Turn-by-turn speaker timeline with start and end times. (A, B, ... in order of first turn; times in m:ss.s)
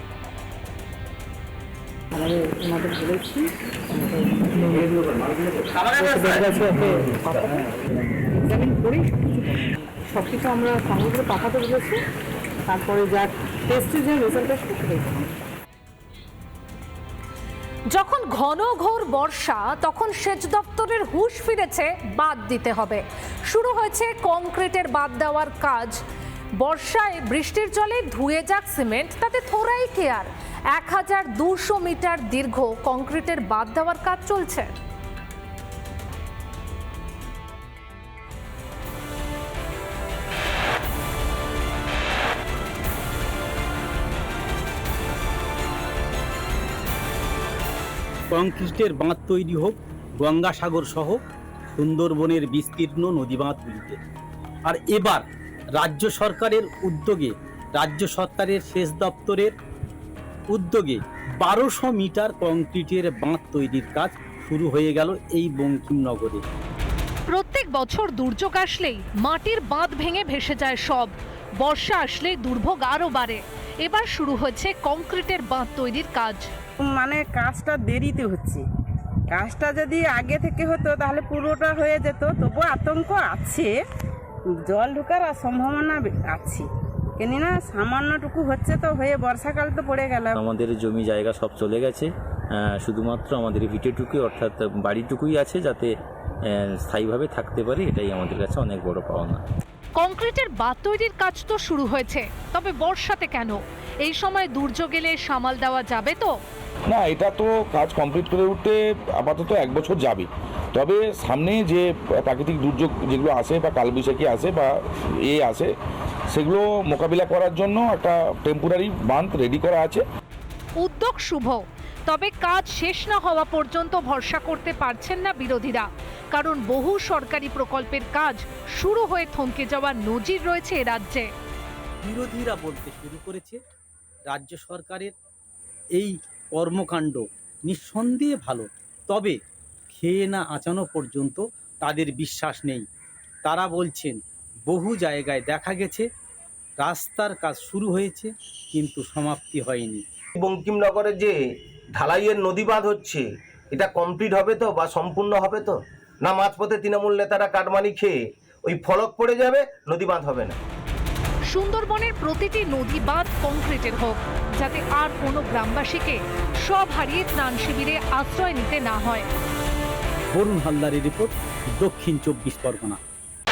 0:02.1-0:03.5 A
0:04.1-0:05.3 A
0:05.9-0:07.6 A
0:08.4-0:12.0 A
0:12.7-0:15.3 A
0:17.9-0:26.0 B
0:26.6-0:34.7 B
0:48.3-0:51.2 C
0:51.8-0:54.0 C
0:54.6-0:55.2 C
0:55.8-0:59.5 C
1:00.5-1:06.4 C
1:07.3-1:16.5 B
1:16.8-1:18.6 D
1:19.3-1:23.8 D
1:24.6-1:26.7 D
1:27.2-1:30.3 D
1:30.3-1:35.9 E
1:36.5-1:39.4 E
1:40.0-1:46.4 B
1:46.9-1:55.7 F
1:56.3-2:00.0 F
2:00.8-2:11.3 B
2:12.0-2:13.6 C
2:14.3-2:15.1 C
2:15.9-2:19.4 C
2:19.9-2:22.9 C
2:23.4-2:26.0 C
2:26.8-2:30.0 C
2:30.3-2:31.4 G
2:31.9-2:40.6 G
2:41.5-2:49.2 B
2:50.3-2:53.0 C